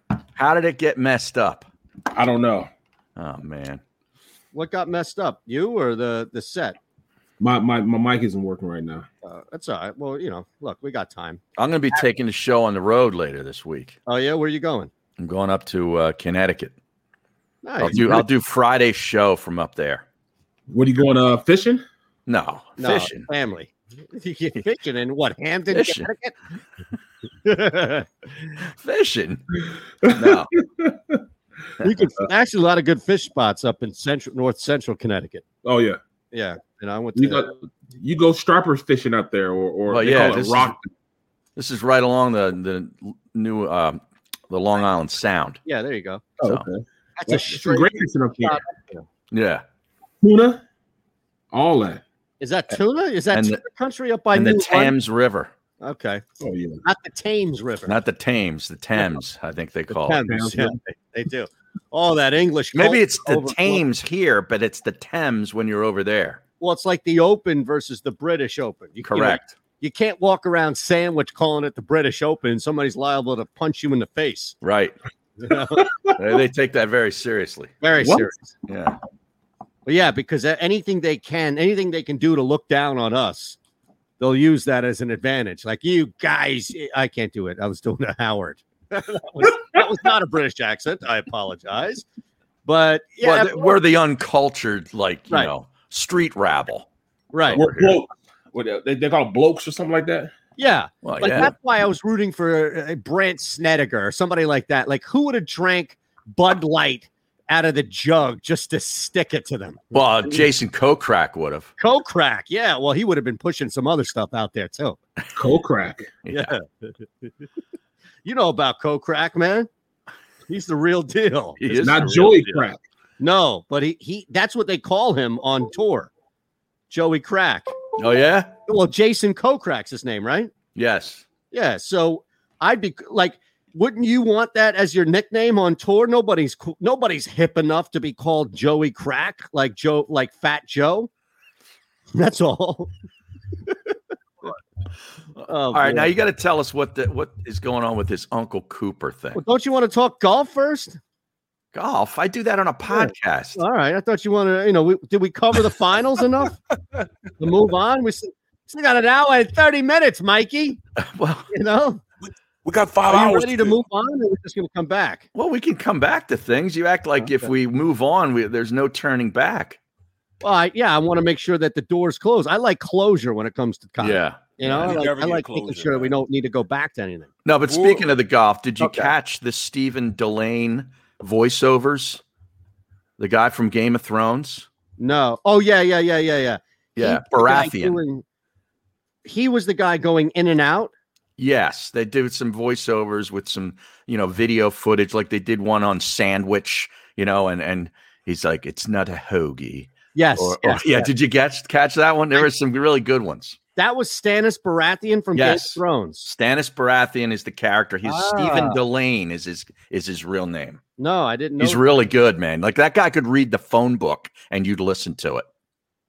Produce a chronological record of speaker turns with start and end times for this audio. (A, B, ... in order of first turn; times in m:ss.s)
0:00.4-0:01.7 A
0:02.1-0:02.7 B
0:03.2-0:03.8 A
0:04.5-0:06.8 C
0:07.4-0:09.0 B
0:09.2-0:11.4 C
0:11.6-0:14.0 A
0:14.1-0:14.9 C
0:15.2-0:16.7 A
0:17.6-0:18.2 C
0:17.8-0:20.0 A
0:20.7-0:21.8 B
0:22.3-0:23.3 A
0:22.8-0:26.4 C
0:25.7-0:26.1 A
0:27.4-0:28.1 C
0:28.6-0:29.4 A
0:30.0-0:31.2 B
0:30.1-0:30.5 A
0:31.8-0:32.1 A
0:31.8-0:35.4 C
0:35.6-0:36.0 B
0:36.3-0:37.5 C
0:37.2-0:40.8 B
0:39.9-0:40.7 A
0:41.6-0:45.6 A
0:45.6-0:46.2 C
0:46.4-0:48.6 B
0:47.2-0:49.0 C
0:49.3-0:49.6 A
0:50.2-0:50.6 B
0:51.5-0:52.0 B
0:52.4-0:54.9 C
0:53.3-0:53.6 A
0:54.3-0:55.5 A
0:55.8-0:56.2 C
0:56.4-0:56.8 B
0:56.8-0:58.0 C
0:57.8-1:00.3 A
0:59.9-1:03.8 C
1:00.3-1:00.7 B
1:02.7-1:06.4 A
1:06.6-1:14.6 C
1:09.1-1:09.6 A
1:14.6-1:14.9 A
1:15.4-1:15.9 C
1:16.2-1:19.0 A
1:17.8-1:18.5 C
1:19.8-1:23.6 C
1:24.2-1:32.0 C
1:32.6-1:33.8 C
1:33.2-1:36.9 A
1:37.3-1:37.6 C
1:37.5-1:38.0 A
1:37.5-1:40.3 B
1:40.6-1:50.4 C
1:41.0-1:41.5 A
1:49.9-1:51.7 A
1:51.8-1:55.0 C
1:55.4-1:56.1 B
1:56.2-1:56.5 A
1:56.3-1:56.9 C
1:58.2-1:59.7 C
2:00.5-2:02.5 C
2:01.6-2:02.4 A
2:01.8-2:02.8 B
2:03.2-2:06.1 C
2:06.9-2:07.7 C
2:08.0-2:08.5 A
2:08.7-2:10.5 C
2:10.7-2:11.2 A
2:11.5-2:21.1 C
2:22.1-2:22.9 C
2:25.5-2:26.1 C
2:25.7-2:29.4 A
2:29.3-2:31.0 C
2:31.7-2:33.6 A
2:32.9-2:36.6 C
2:37.4-2:40.8 C
2:41.0-2:41.5 A
2:41.5-2:42.0 C
2:42.2-2:43.8 B
2:43.1-2:45.3 C
2:45.3-2:49.8 A
2:47.2-2:47.5 C
2:50.4-2:57.3 C
2:54.0-2:54.9 A
2:54.6-2:56.1 B
2:57.4-3:02.2 A
2:57.7-2:58.1 B
2:58.8-2:59.1 C
3:03.2-3:04.7 A
3:05.0-3:08.2 C
3:07.0-3:08.0 A
3:09.2-3:10.9 C
3:11.4-3:23.6 A
3:20.1-3:21.1 C
3:23.8-3:26.3 C
3:25.3-3:30.8 A
3:28.0-3:28.8 C
3:31.0-3:31.8 C
3:31.6-3:35.5 A